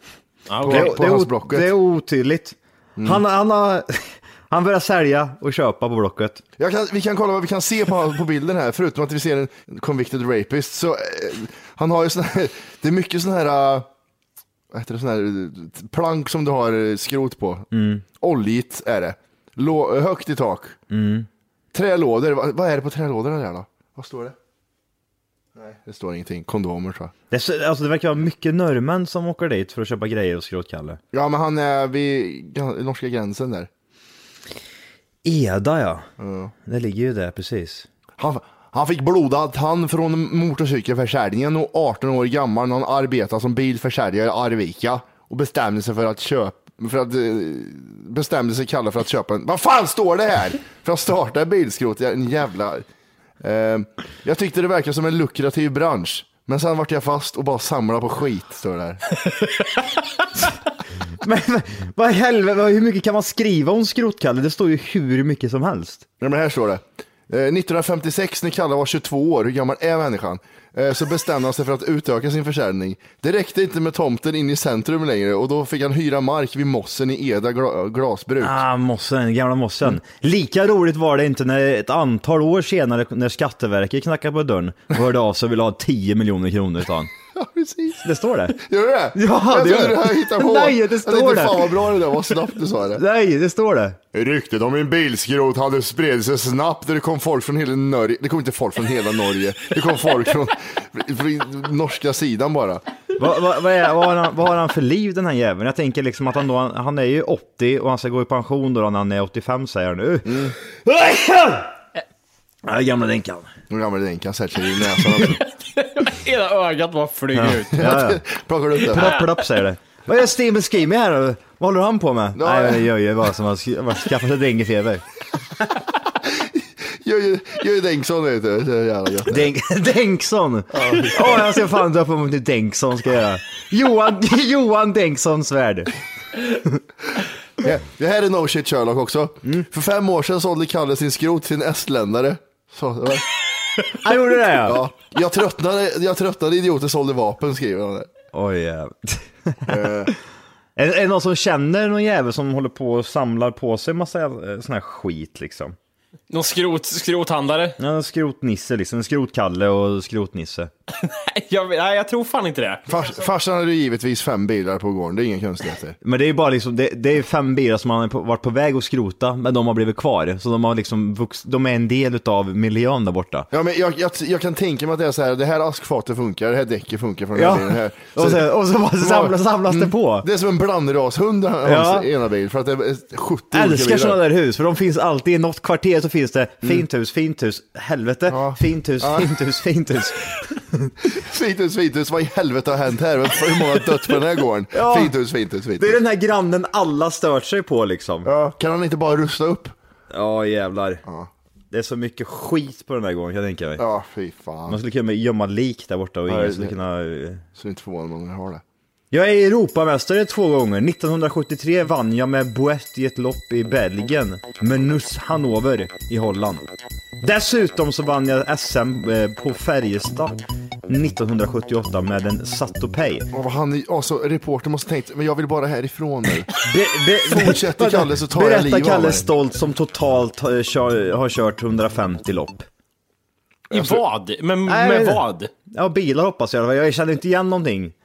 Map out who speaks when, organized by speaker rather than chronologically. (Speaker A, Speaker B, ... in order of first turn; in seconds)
Speaker A: 0.5-0.9, 115.8-117.8, 156.3-157.8, 160.9-162.8, 233.7-235.5
Speaker B: 0.6-1.7, 6.6-13.9, 14.7-20.8, 21.7-24.4, 25.5-27.1, 31.1-33.7, 36.2-36.5, 38.2-52.9, 53.4-59.0, 66.2-78.6, 87.3-88.0, 88.6-93.0, 94.1-102.8, 110.2-110.5, 113.7-115.4, 117.7-119.1, 122.3-122.8, 126.4-129.5, 130.7-131.6, 137.6-143.2, 144.6-148.1, 149.7-150.1, 162.9-166.0, 173.5-178.4, 179.0-184.2, 188.3-189.3, 191.1-196.0, 198.2-199.7, 203.8-204.8, 206.3-206.7, 207.6-208.6, 223.3-226.5, 227.2-229.3, 233.7-234.0
Speaker C: 0.7-6.4, 17.7-18.1, 20.9-21.3, 27.3-31.0, 35.2-36.0, 36.6-37.9, 61.2-66.0, 78.4-87.1, 88.0-88.6, 89.2-91.7, 93.0-94.0, 103.2-111.7, 112.6-113.5, 117.3-118.2, 118.9-125.0, 129.3-135.9, 144.0-144.8, 148.3-150.1, 150.8-155.7, 157.8-160.7, 166.0-173.5, 177.3-180.2, 181.6-182.1, 183.5-190.9, 194.7-195.1, 195.8-198.3, 200.1-201.0, 201.7-203.8, 204.7-207.4, 209.1-216.7, 217.2-223.3, 226.6-232.7, 234.7-237.9